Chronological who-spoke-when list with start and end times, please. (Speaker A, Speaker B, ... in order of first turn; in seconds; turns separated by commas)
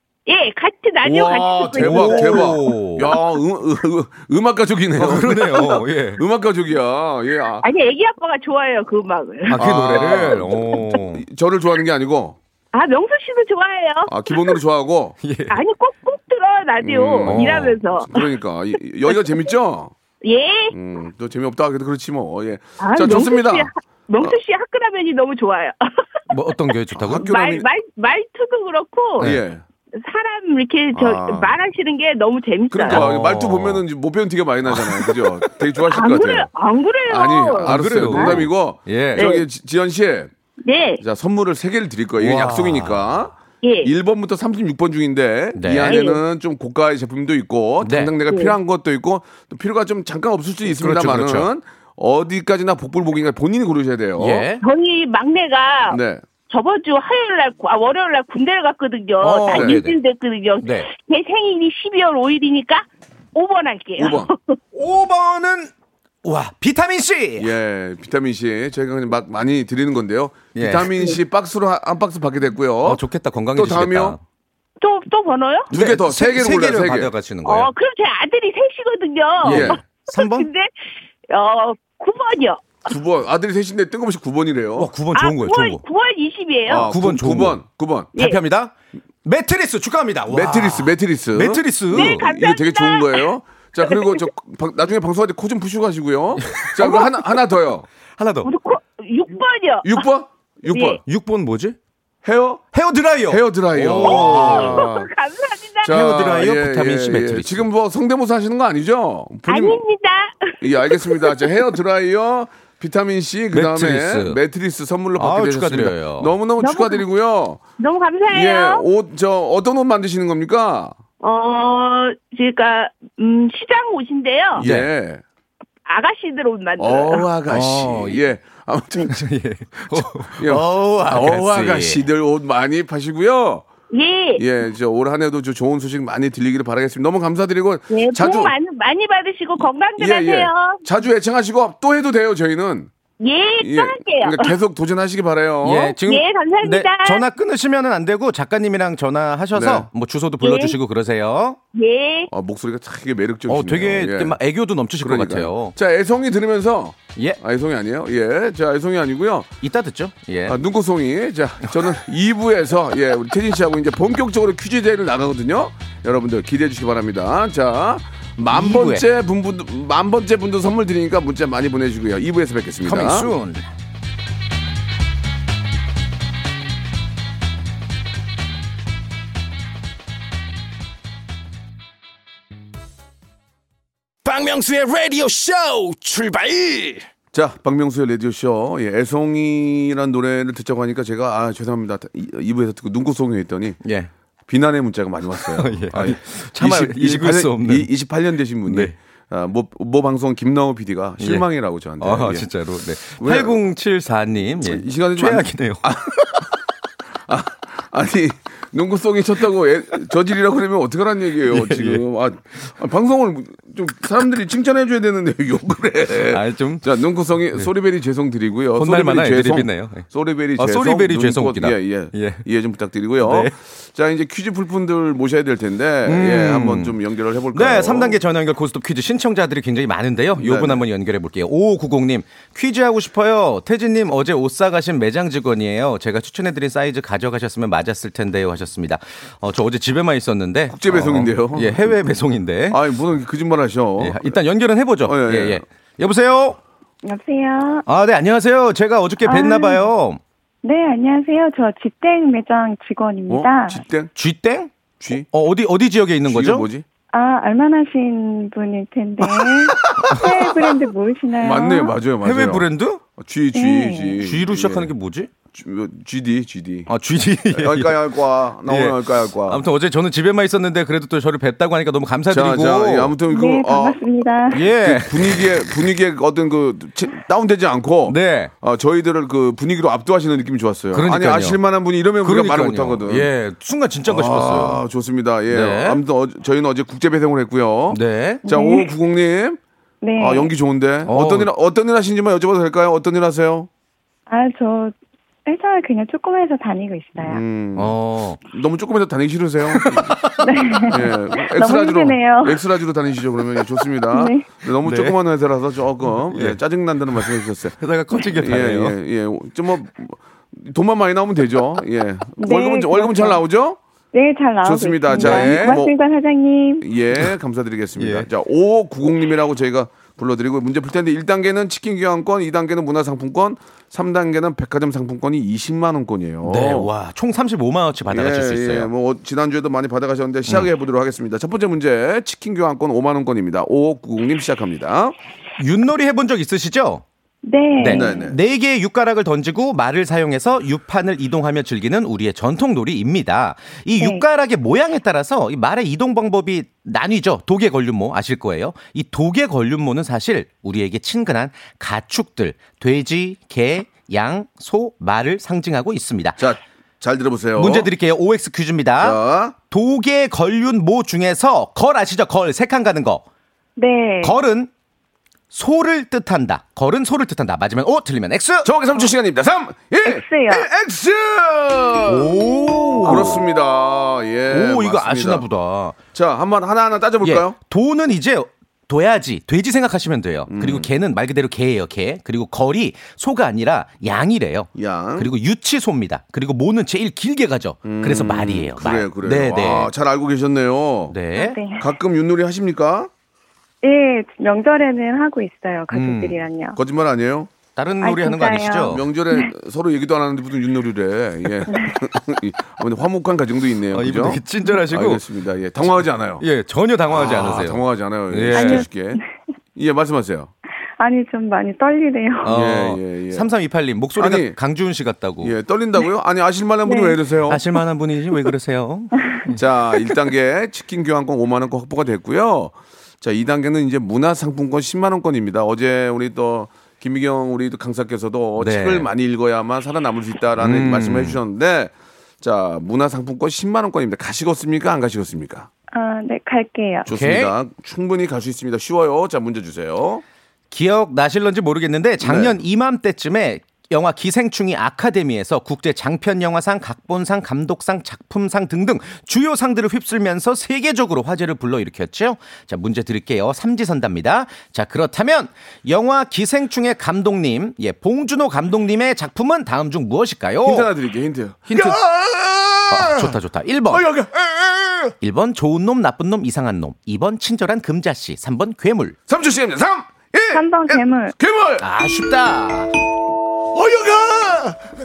Speaker A: 0.3-2.6, Speaker B: 1.0-7.7, Speaker C: 1.8-3.1, Speaker C: 5.0-6.2, Speaker A: 7.6-9.6, Speaker C: 9.5-11.2, Speaker B: 9.5-12.4, Speaker A: 12.7-14.6, Speaker B: 14.1-15.2, Speaker C: 15.2-15.6, Speaker A: 15.5-18.2, Speaker B: 16.8-19.9, Speaker C: 17.3-17.8, Speaker A: 20.2-20.8, Speaker B: 20.7-23.7, Speaker A: 22.8-26.0, Speaker C: 26.3-27.3, Speaker B: 27.0-27.7, Speaker A: 27.2-29.3, Speaker B: 29.2-29.6, Speaker A: 30.0-33.0, Speaker B: 30.9-31.6, Speaker B: 32.7-36.5, Speaker C: 32.9-33.8, Speaker C: 34.7-35.5, Speaker A: 35.9-38.5, Speaker B: 37.1-40.3, Speaker C: 37.6-39.3, Speaker A: 39.2-39.4, Speaker A: 40.6-41.0, Speaker B: 41.0-54.5, Speaker C: 42.2-43.2, Speaker A: 43.6-43.9, Speaker C: 45.6-46.0, Speaker A: 45.9-46.2, Speaker C: 47.8-48.1, Speaker A: 48.3-48.6, Speaker C: 50.7-51.5, Speaker C: 54.2-54.6, Speaker A: 54.6-56.0, Speaker B: 55.9-56.2, Speaker A: 56.5-64.6, Speaker C: 59.2-60.0, Speaker B: 59.5-59.8, Speaker C: 60.6-60.9, Speaker B: 64.0-64.3, Speaker C: 64.8-65.7, Speaker C: 66.2-67.5, Speaker B: 67.4-73.0, Speaker C: 70.5-70.9, Speaker C: 72.8-74.2, Speaker B: 73.5-74.2, Speaker A: 74.8-75.7, Speaker B: 75.7-77.1, Speaker C: 75.7-77.7, Speaker A: 77.5-80.7, Speaker C: 79.4-80.5, Speaker B: 79.4-79.8, Speaker A: 81.3-82.8, Speaker B: 82.9-84.9, Speaker C: 84.8-85.8, Speaker A: 85.2-86.9, Speaker B: 86.7-88.1, Speaker C: 86.8-87.6, Speaker C: 88.2-88.7, Speaker C: 89.2-92.2, Speaker B: 90.3-97.9, Speaker A: 91.9-93.3, Speaker A: 93.9-94.2, Speaker C: 96.4-96.9, Speaker C: 98.2-98.5, Speaker A: 98.4-100.0, Speaker B: 99.8-101.0, Speaker A: 100.7-101.0, Speaker C: 101.1-101.8, Speaker B: 102.2-102.7, Speaker C: 102.7-104.9, Speaker B: 103.3-105.1, Speaker A: 104.0-106.0, Speaker B: 105.8-109.8, Speaker C: 105.9-107.7, Speaker A: 109.5-111.7, Speaker B: 110.6-117.6, Speaker C: 113.5-114.4, Speaker C: 115.2-116.3, Speaker A: 116.6-117.0, Speaker A: 117.8-118.8, Speaker B: 118.3-121.0, Speaker A: 121.2-124.6, Speaker B: 124.5-125.2, Speaker C: 124.6-124.9, Speaker A: 125.9-127.3, Speaker B: 126.8-129.2, Speaker C: 127.5-128.2, Speaker C: 129.1-132.0, Speaker B: 129.9-133.7, Speaker A: 133.9-134.4, Speaker B: 134.4-138.5, Speaker A: 137.9-140.8, Speaker B: 140.0-142.9, Speaker A: 143.2-144.5, Speaker B: 143.6-145.9, Speaker C: 145.6-151.6, Speaker A: 146.0-147.2, Speaker B: 149.5-149.9, Speaker A: 150.4-150.8, Speaker A: 151.8-152.3, Speaker B: 152.3-154.4, Speaker C: 153.5-155.8, Speaker B: 155.0-159.5, Speaker C: 159.6-160.6, Speaker B: 160.5-173.3, Speaker C: 168.5-169.1, Speaker C: 172.8-173.7, Speaker D: 184.2-187.1, Speaker B: 187.3-193.8, Speaker C: 193.8-194.1, Speaker B: 194.5-202.5, Speaker C: 195.5-197.9, Speaker C: 198.7-198.9, Speaker C: 201.2-201.5, Speaker C: 202.0-206.4, Speaker B: 203.2-203.6, Speaker B: 204.6-206.4, Speaker B: 207.3-228.2, Speaker C: 211.5-212.0, Speaker C: 216.3-216.9, Speaker C: 218.8-220.1, Speaker C: 220.6-222.4, Speaker C: 223.2-223.6, Speaker C: 226.1-227.0, Speaker C: 227.5-242.8, Speaker B: 230.4-230.8, Speaker B: 240.7-242.0, Speaker B: 242.7-244.4, Speaker C: 244.0-246.6, Speaker B: 245.0-245.6, Speaker E: 247.0-247.8, Speaker C: 247.9-250.2, Speaker E: 249.2-249.8, Speaker E: 250.6-253.8, Speaker B: 253.3-254.1, Speaker C: 254.2-254.7, Speaker B: 255.0-255.3, Speaker C: 255.3-256.7, Speaker B: 256.3-256.9, Speaker E: 257.1-261.9, Speaker C: 259.9-260.3, Speaker B: 261.4-264.9, Speaker C: 262.2-263.0, Speaker E: 263.5-264.2, Speaker C: 264.2-265.3, Speaker B: 265.5-266.9, Speaker C: 266.9-268.0, Speaker B: 267.5-269.6, Speaker C: 268.7-273.1, Speaker B: 272.3-274.0, Speaker E: 273.3-274.6, Speaker C: 274.5-275.6, Speaker B: 274.6-283.3, Speaker C: 278.1-278.5, Speaker C: 280.9-281.6, Speaker C: 282.2-284.8, Speaker B: 284.1-289.6, Speaker C: 285.5-286.0, Speaker C: 287.9-288.4, Speaker E: 288.5-288.9, Speaker E: 290.0-290.5, Speaker B: 290.2-293.7, Speaker C: 291.1-291.5, Speaker E: 294.3-294.9, Speaker E: 295.5-297.4, Speaker B: 297.2-300.2, Speaker C: 297.8-298.4, Speaker C: 299.7-300.5, Speaker E: 300.4-302.6, Speaker B: 300.9-313.8, Speaker E: 304.1-304.5, Speaker C: 304.8-305.2, Speaker C: 306.1-306.6, Speaker C: 307.1-309.0, Speaker E: 312.4-313.4, Speaker E: 314.1-316.9, Speaker B: 314.6-315.9, Speaker C: 315.1-315.8, Speaker B: 316.8-326.9, Speaker C: 318.0-318.3, Speaker C: 326.4-328.9, Speaker B: 328.1-335.1, Speaker C: 335.6-337.0, Speaker E: 337.4-338.3, Speaker C: 337.8-356.4, Speaker B: 337.9-338.4, Speaker E: 344.0-344.2, Speaker B: 356.4-357.9, Speaker C: 357.6-363.2, Speaker B: 359.0-359.6, Speaker E: 363.8-364.4, Speaker C: 364.2-364.7, Speaker C: 365.5-368.7, Speaker B: 368.6-372.4, Speaker E: 370.0-370.7, Speaker C: 372.1-373.4, Speaker B: 373.0-375.4, Speaker C: 374.5-376.0, Speaker B: 376.1-377.6, Speaker C: 377.2-389.9, Speaker B: 380.5-380.9, Speaker B: 384.8-385.3, Speaker B: 387.9-391.2, Speaker C: 391.1-391.6, Speaker E: 391.4-391.9, Speaker B: 391.8-393.1, Speaker E: 393.8-396.8, Speaker C: 395.9-396.4, Speaker B: 396.8-397.5, Speaker C: 397.8-399.0, Speaker E: 398.0-399.5, Speaker B: 398.9-406.4, Speaker E: 401.7-402.0, Speaker C: 403.9-405.2, Speaker C: 406.4-408.9, Speaker B: 407.1-409.2, Speaker E: 408.5-409.2, Speaker B: 409.8-410.5, Speaker E: 411.0-412.5, Speaker B: 412.4-413.5, Speaker C: 412.4-415.6, Speaker B: 414.2-414.6, Speaker B: 415.4-417.6, Speaker E: 416.9-417.2, Speaker C: 417.5-420.1, Speaker B: 419.5-435.7, Speaker C: 428.6-429.1, Speaker C: 430.6-431.4, Speaker E: 435.9-437.1, Speaker B: 437.1-440.2, Speaker C: 437.1-437.5, Speaker C: 440.7-460.9, Speaker B: 442.2-442.6, Speaker B: 460.6-463.4, Speaker C: 461.7-462.0, Speaker C: 462.9-464.1, Speaker B: 463.9-465.1, Speaker C: 465.2-469.2, Speaker B: 469.3-471.9, Speaker E: 470.5-471.4, Speaker C: 471.8-472.9, Speaker B: 473.7-474.9